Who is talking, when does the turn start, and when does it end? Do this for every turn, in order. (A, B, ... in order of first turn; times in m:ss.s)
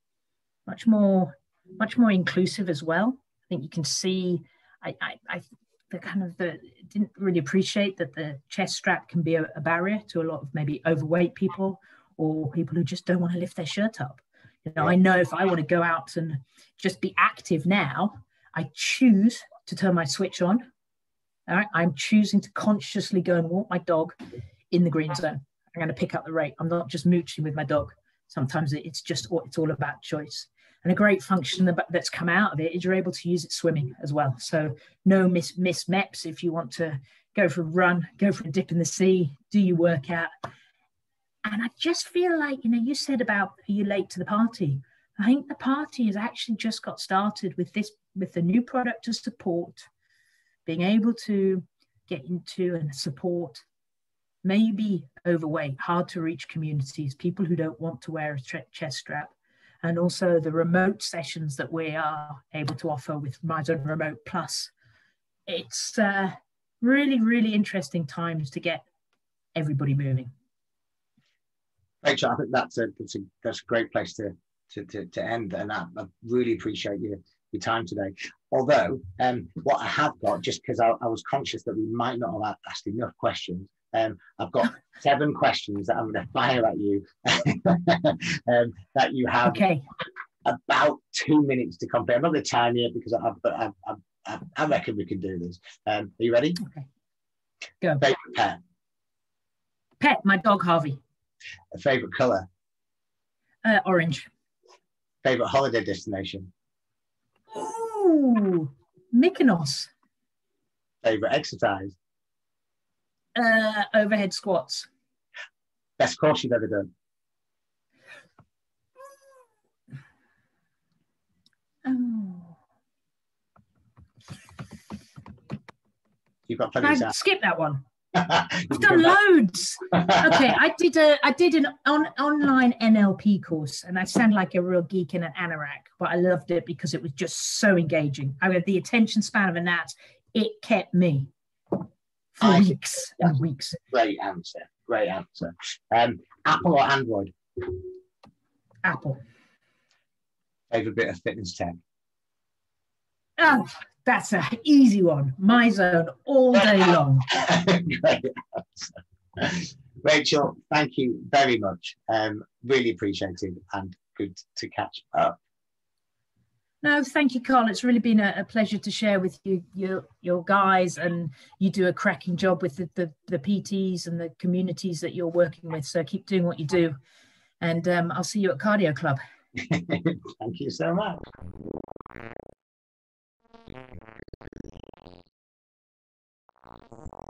0:00.7-0:20.7 A
0:21.5-0:24.2 A
0:24.7-0:40.3 A
0:41.4-0:49.9 A
0:50.6-0:53.6 A
0:54.4-1:04.7 A
1:05.5-1:08.8 A
1:09.5-1:10.3 A
1:12.0-1:29.6 B
1:29.4-1:29.8 A
1:30.4-1:36.6 B
1:36.6-1:36.9 A
1:38.0-1:38.6 B
1:40.0-1:41.0 A
1:41.7-1:42.5 B
1:43.6-1:44.3 A
1:45.2-1:46.5 B
1:47.5-1:49.9 A
1:51.0-1:52.0 B
1:53.3-1:54.9 A
1:56.0-1:56.9 B
2:01.8-2:02.6 A
2:06.5-2:07.1 B
2:06.8-2:07.8 A
2:08.1-2:09.1 B
2:08.7-2:21.8 A
2:22.4-2:23.8 A
2:22.4-2:23.3 B
2:23.9-2:27.9 B
2:28.8-2:29.2 A
2:30.7-2:31.8 B
2:33.4-2:37.3 A
2:37.3-2:45.4 B
2:46.8-2:57.0 A
2:57.6-2:59.2 A
2:59.6-3:01.2 B